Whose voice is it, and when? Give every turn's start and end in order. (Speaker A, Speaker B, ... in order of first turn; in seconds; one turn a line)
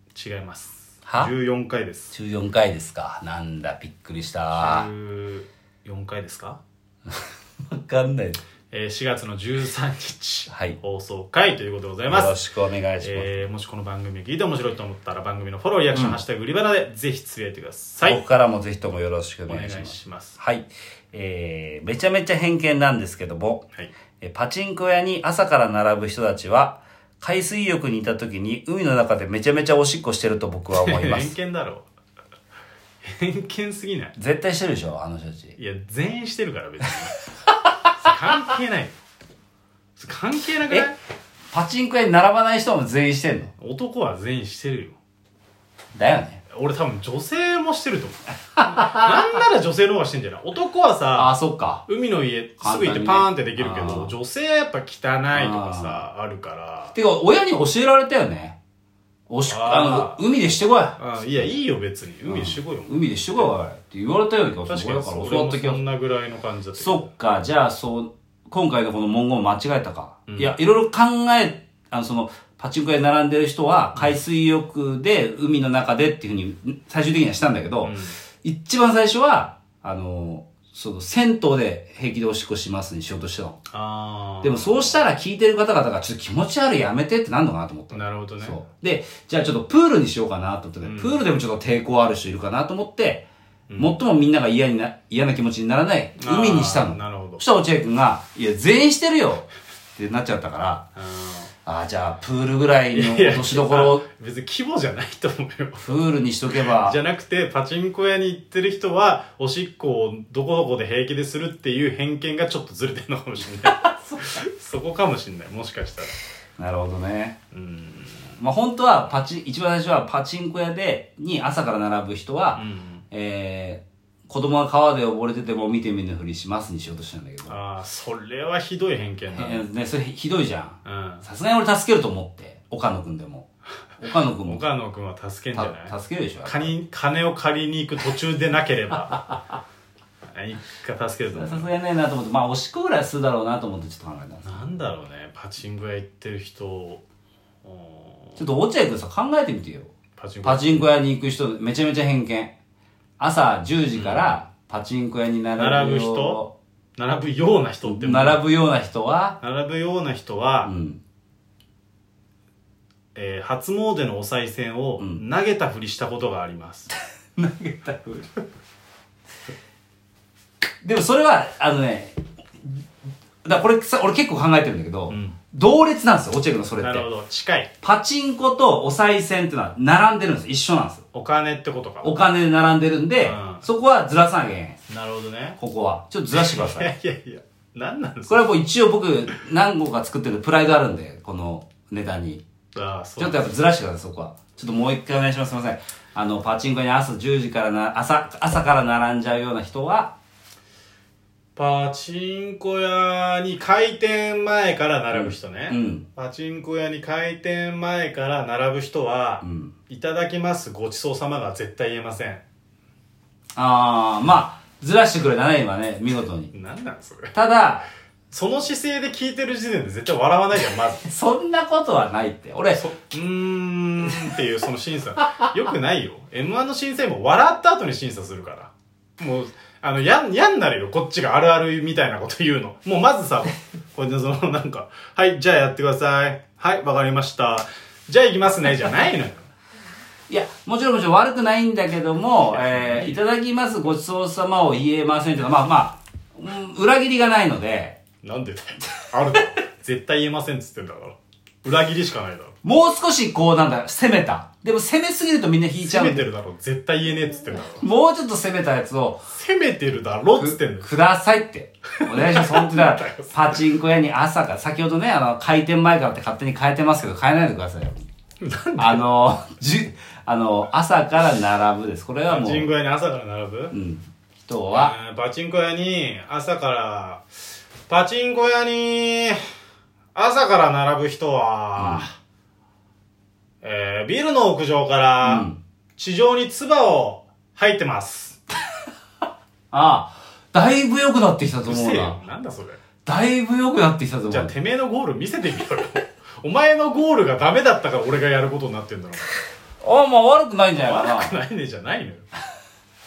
Speaker A: 0.1-2.1
Speaker B: 1.1-1.3
Speaker B: 2.1-4.9
Speaker A: 4.5-6.6
Speaker B: 7.7-8.4
Speaker A: 8.7-12.3
Speaker B: 10.5-10.8
Speaker B: 12.1-13.3
Speaker A: 13.0-18.2
Speaker B: 15.9-16.2
Speaker B: 18.0-23.6
Speaker A: 19.5-20.4
Speaker B: 24.2-31.3
Speaker A: 30.7-31.9
Speaker A: 33.0-34.1
Speaker B: 34.2-35.5
Speaker A: 35.6-37.2
Speaker A: 38.0-39.0
Speaker A: 40.0-41.0
Speaker B: 41.5-43.5
Speaker A: 43.6-45.0
Speaker B: 45.9-46.4
Speaker A: 46.5-51.3
Speaker B: 48.7-49.4
Speaker B: 51.1-51.8
Speaker A: 51.9-57.0
Speaker B: 52.6-54.1
Speaker B: 55.3-56.0
Speaker B: 56.9-58.6
Speaker B: 59.3-61.5
Speaker A: 59.5-60.2
Speaker A: 61.0-63.5
Speaker B: 62.2-65.8
Speaker A: 64.7-67.1
Speaker B: 66.8-83.6
Speaker A: 70.3-70.5
Speaker A: 77.8-78.2
Speaker A: 83.7-85.0
Speaker B: 84.4-93.2
Speaker A: 87.9-88.6
Speaker A: 90.8-91.2
Speaker A: 93.7-94.0
Speaker B: 93.8-100.8
Speaker A: 96.2-97.4
Speaker A: 101.0-101.5
Speaker B: 101.6-104.0
Speaker A: 102.9-106.0
Speaker B: 105.8-107.0
Speaker A: 106.6-116.1
Speaker B: 113.8-114.3
Speaker B: 116.6-117.4
Speaker A: 117.5-118.3
Speaker B: 118.4-127.6
Speaker A: 122.5-123.0
Speaker A: 127.5-129.7
Speaker B: 129.3-133.5
Speaker A: 130.8-131.2
Speaker B: 134.0-134.6
Speaker A: 134.4-135.9
Speaker B: 135.5-136.7
Speaker A: 136.4-139.2
Speaker A: 140.3-141.7
Speaker B: 141.3-144.6
Speaker A: 144.4-147.0
Speaker A: 147.6-148.4
Speaker B: 148.4-149.9
Speaker A: 150.2-150.9
Speaker B: 150.4-152.5
Speaker B: 153.2-156.5
Speaker A: 153.9-154.4
Speaker A: 155.6-156.4
Speaker A: 156.9-158.4
Speaker B: 157.8-159.4
Speaker A: 159.4-160.7
Speaker B: 160.6-161.0
Speaker A: 163.1-166.9
Speaker B: 167.3-168.4
Speaker B: 170.8-172.8
Speaker B: 173.4-177.1
Speaker A: 175.1-175.4
Speaker A: 176.8-177.7
Speaker B: 177.8-181.0
Speaker A: 181.1-182.2
Speaker B: 182.0-184.8
Speaker A: 183.2-183.7
Speaker A: 184.9-185.6
Speaker B: 185.6-186.9
Speaker A: 186.3-188.5
Speaker B: 188.3-192.4
Speaker A: 192.7-193.5
Speaker B: 193.2-200.1
Speaker A: 201.6-212.4
Speaker B: 205.1-206.0
Speaker B: 209.4-209.7
Speaker B: 213.6-216.5
Speaker A: 216.5-217.3
Speaker B: 217.3-217.9
Speaker A: 218.3-221.1
Speaker B: 221.0-222.9
Speaker A: 222.8-239.5
Speaker B: 240.3-248.0
Speaker A: 242.5-243.2
Speaker A: 248.2-252.5
Speaker B: 252.6-256.2
Speaker A: 255.8-257.9
Speaker B: 257.8-259.2
Speaker A: 259.3-260.9
Speaker B: 260.4-268.0
Speaker A: 262.0-263.6
Speaker A: 268.4-269.1
Speaker B: 268.8-272.7
Speaker A: 272.3-273.7
Speaker B: 273.7-274.9
Speaker A: 274.7-277.3
Speaker A: 277.9-279.4
Speaker A: 280.1-282.1
Speaker B: 281.8-282.1
Speaker A: 283.6-288.4
Speaker B: 285.2-285.6
Speaker B: 289.7-292.2
Speaker A: 291.6-292.8
Speaker B: 293.1-294.5
Speaker A: 294.3-299.3
Speaker B: 299.8-301.4
Speaker A: 300.7-302.3